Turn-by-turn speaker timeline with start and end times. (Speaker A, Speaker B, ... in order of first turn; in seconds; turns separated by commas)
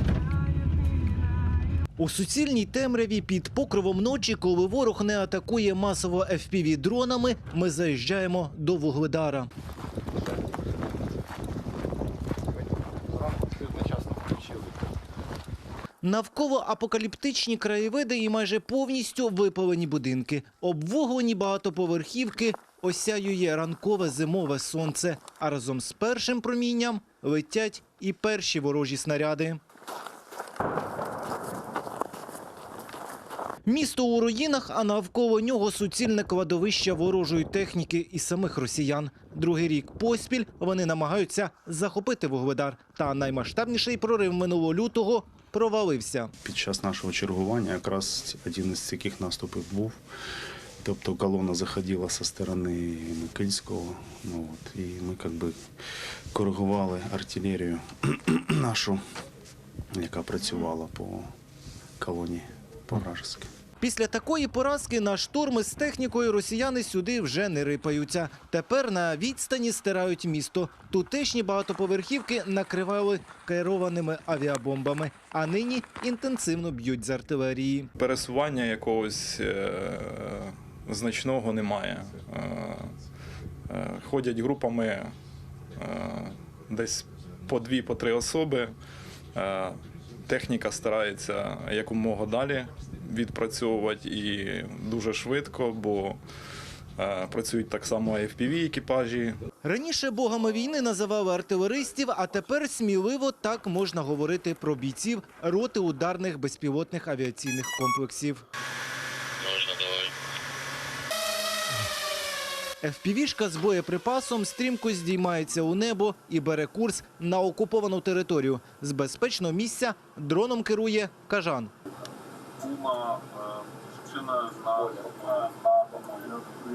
Speaker A: 2.0-9.5, Speaker A: 16.0-29.6, Speaker A: 33.6-46.3, Speaker B: 46.4-50.0, Speaker B: 50.8-55.6, Speaker B: 56.3-59.0, Speaker B: 59.9-61.3, Speaker B: 62.0-63.5, Speaker A: 63.8-77.9, Speaker C: 78.0-82.9, Speaker C: 83.7-85.1, Speaker C: 85.8-88.8, Speaker C: 89.3-96.2, Speaker C: 97.0-99.4, Speaker A: 99.6-108.5, Speaker A: 112.8-121.7, Speaker D: 122.6-123.4, Speaker D: 124.1-126.5